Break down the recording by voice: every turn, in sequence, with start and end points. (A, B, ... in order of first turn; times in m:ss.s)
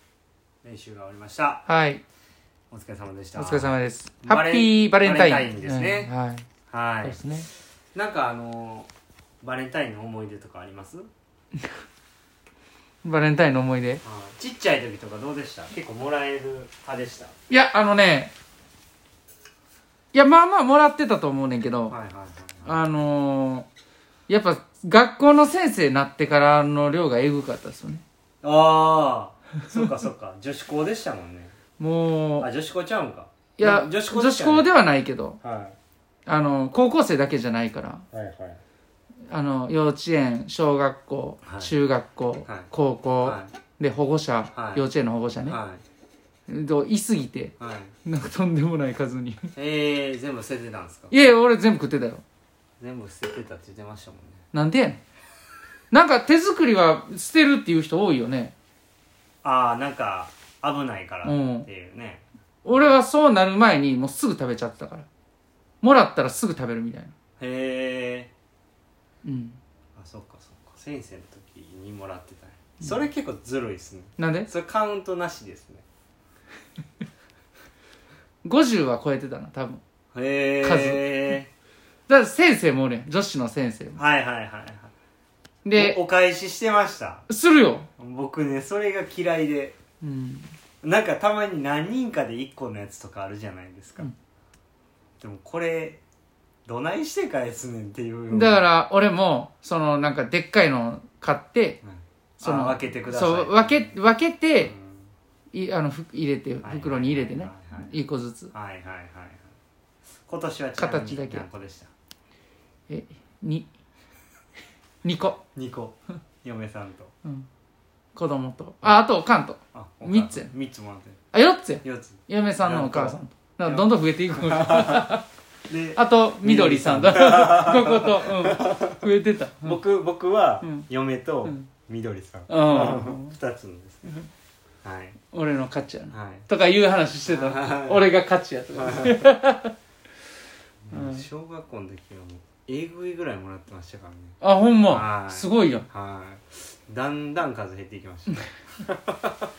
0:00.6-0:01.6 A
0:01.7-0:02.0 B
0:02.7-0:06.1 A
0:03.4-0:06.5 B
0:06.7-0:07.2 A
0:07.0-0:07.5 B
0:08.0-0:08.9 A
0:09.4-0:11.1 A
0:13.0-0:14.0 B
0:14.0-0:17.3 A
0:17.5-0:18.3 B
0:20.1-0:22.0 B
0:21.9-0:22.8 A
0:22.7-0:23.7 B
0:24.3-0:28.0 B
0:28.4-0:31.5 A
0:31.8-0:32.5 B
0:32.4-0:34.7 A
0:33.6-0:35.4 B
0:35.4-0:35.8 A
0:36.3-0:38.1 B
0:38.1-0:38.6 A
0:39.3-0:45.6 B
0:41.4-0:41.7 A
0:43.2-0:43.5 A
0:44.5-0:44.9 A
0:45.4-0:45.8 A
0:46.5-0:49.5 B
0:47.6-0:47.9 A
0:49.6-0:51.1 A
0:51.1-0:52.2 B
0:52.8-0:54.4 A
0:54.5-0:55.0 B
0:55.9-0:58.5 B
0:59.4-1:02.2 A
1:01.2-1:01.7 B
1:02.6-1:05.1 B
1:05.8-1:07.1 B
1:07.4-1:08.3 A
1:09.2-1:09.6 B
1:10.0-1:15.8 A
1:14.2-1:14.5 B
1:18.4-1:19.8 B
1:20.1-1:21.5 A
1:20.6-1:21.4 B
1:22.1-1:24.0 B
1:24.0-1:24.9 A
1:25.6-1:26.0 B
1:25.7-1:27.3 A
1:27.3-1:27.9 B
1:28.0-1:29.8 A
1:30.0-1:30.5 B
1:30.8-1:34.1 A
1:35.2-1:36.0 A
1:36.7-1:38.7 A
1:38.3-1:41.8 B
1:41.8-1:43.9 A
1:42.4-1:44.7 B
1:44.6-1:45.1 A
1:45.5-1:48.5 B
1:46.6-1:47.9 A
1:48.5-1:49.5 A
1:50.3-1:51.9 A
1:50.8-1:51.5 B
1:52.9-1:53.7 B
1:55.0-1:55.4 B
1:55.5-1:57.1 A
1:58.2-2:00.5 B
1:59.7-2:01.2 A
2:01.3-2:05.2 B
2:01.8-2:05.2 A
2:05.7-2:09.0 A
2:06.0-2:09.8 B
2:09.6-2:14.1 A
2:12.5-2:13.4 B
2:14.8-2:15.2 A
2:15.3-2:19.7 B
2:16.1-2:16.5 A
2:17.3-2:18.1 A
2:18.7-2:19.3 A
2:20.9-2:24.4 A
2:20.9-2:21.2 B
2:24.4-2:25.9 B
2:24.9-2:29.3 A